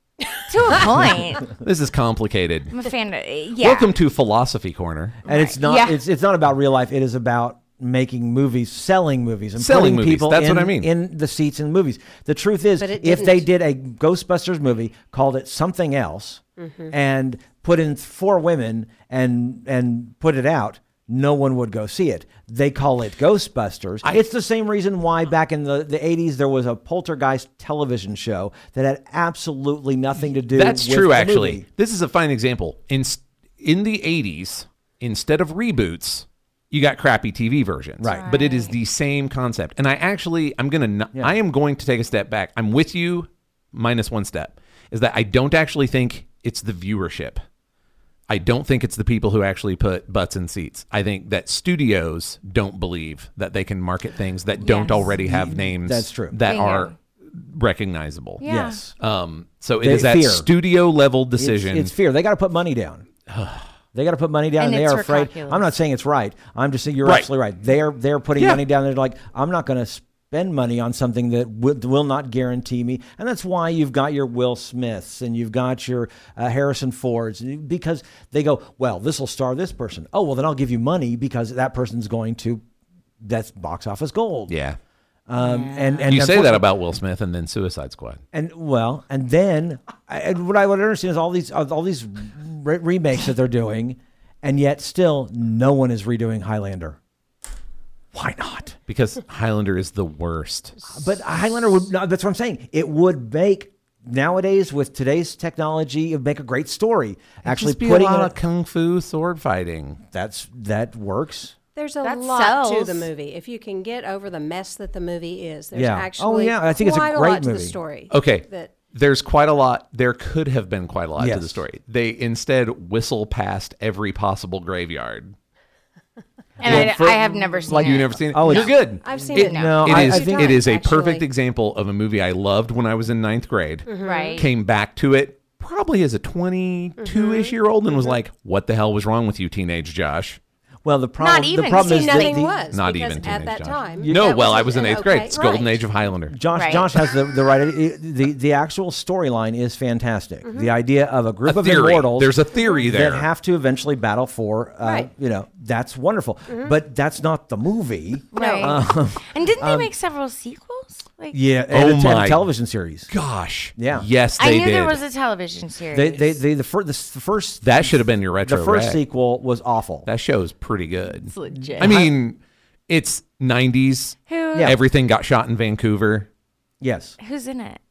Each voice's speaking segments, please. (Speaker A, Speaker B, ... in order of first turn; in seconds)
Speaker A: 0.5-1.5, 2.7-3.9, 5.3-6.0, 38.1-38.8, 54.6-55.2, 56.5-56.9, 58.4-58.8, 64.6-65.7, 85.4-86.1, 112.0-113.1, 126.6-128.7, 129.3-129.9, 134.0-134.5, 141.2-142.5, 146.5-146.9, 158.3-161.4, 164.4-166.4, 171.2-172.0, 174.3-174.7, 177.2-177.8
Speaker B: 1.5-2.8, 3.6-5.2, 9.6-10.9, 30.5-47.4, 48.3-58.4, 59.0-61.9, 63.3-63.7, 67.0-67.3, 68.4-68.6, 84.5-84.8, 86.1-88.2, 98.9-100.8, 107.4-110.0, 118.1-125.3, 126.6-127.2, 127.7-140.4, 142.7-146.4, 151.4-153.3, 161.7-162.4, 163.1-165.0, 167.6-169.0, 170.1-176.3
Speaker C: 5.2-31.6, 38.0-38.3, 55.2-56.4, 58.4-58.9, 59.8-60.5, 61.4-63.1, 63.9-82.6, 83.2-84.5, 85.3-86.7, 88.3-97.0, 98.1-98.8, 100.9-108.4, 110.1-111.5, 115.7-117.8, 121.2-121.6, 126.6-130.5, 140.8-142.6, 144.0-144.3, 146.3-159.9, 161.3-163.1, 163.8-164.1, 165.9-170.1, 171.6-172.1, 176.8-177.2
Speaker D: 12.8-13.5, 16.6-16.9, 111.8-118.7, 127.2-127.7, 129.0-131.2, 133.9-134.5, 137.0-138.2, 141.7-145.8, 150.4-150.7, 152.6-152.9, 154.8-155.1, 156.5-156.7, 158.3-158.8